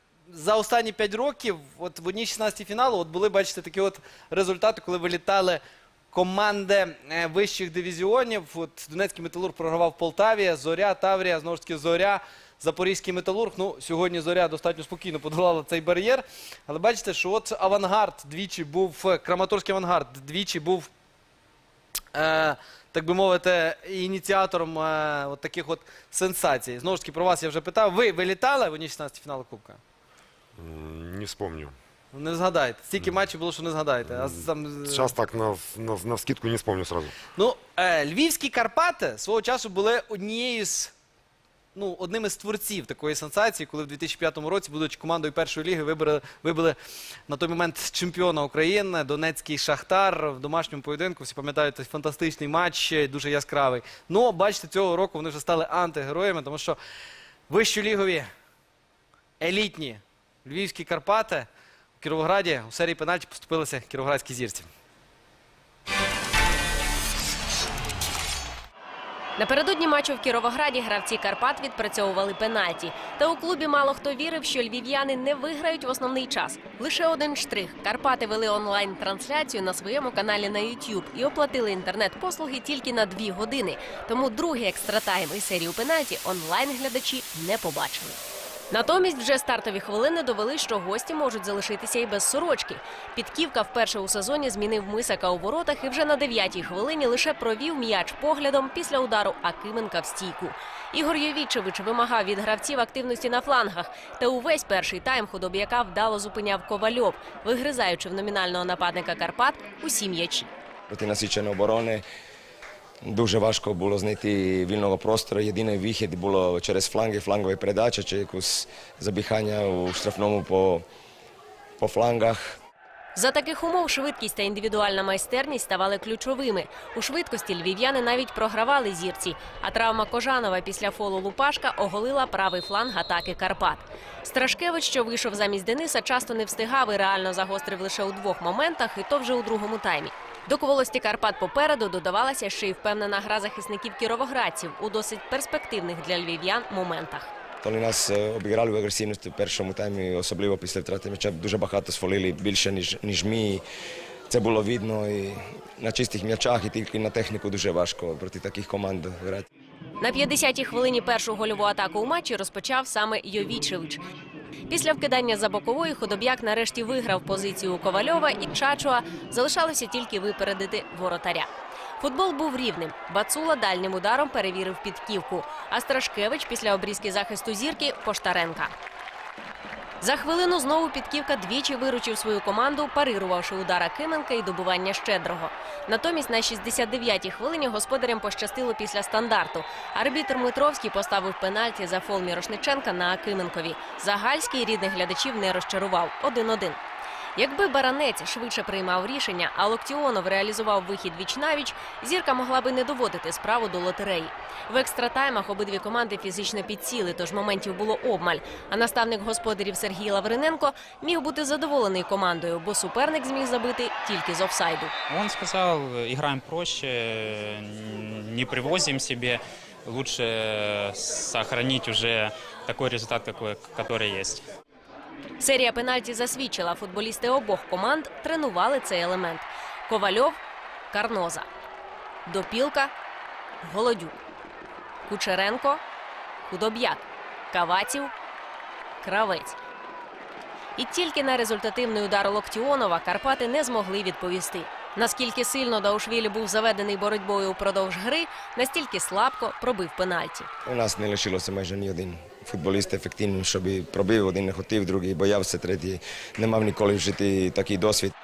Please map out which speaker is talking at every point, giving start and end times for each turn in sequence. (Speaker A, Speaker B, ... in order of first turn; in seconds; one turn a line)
Speaker A: 0.3-5.6
Speaker A: 6.1-20.9
Speaker A: 22.1-29.8
Speaker B: 30.6-31.7
Speaker A: 32.1-35.1
Speaker B: 34.1-37.1
Speaker A: 37.4-40.9
Speaker A: 41.8-46.8
Speaker A: 47.3-56.8
Speaker A: 57.5-58.3
Speaker A: 59.4-61.5
Speaker A: 62.0-64.7
Speaker C: 69.4-88.2
Speaker C: 88.7-110.5
Speaker D: 110.9-112.0
Speaker D: 113.0-120.8
Speaker D: 121.8-122.5
Speaker C: 123.2-147.3
Speaker D: 147.6-153.6
Speaker D: 154.3-159.5
Speaker C: 160.0-164.0
Speaker C: 164.7-171.5
Speaker C: 172.0-178.7
Speaker C: 180.0-196.8
Speaker C: 197.4-214.9
Speaker E: 215.1-224.5
Speaker C: 225.4-230.4
Speaker C: 230.9-231.5
Speaker C: 232.3-232.9
Speaker C: 233.6-234.2
Speaker C: 235.1-235.8
Speaker C: 236.5-238.1
Speaker C: 239.0-239.6
Speaker C: 240.8-250.5
Speaker D: 250.7-258.1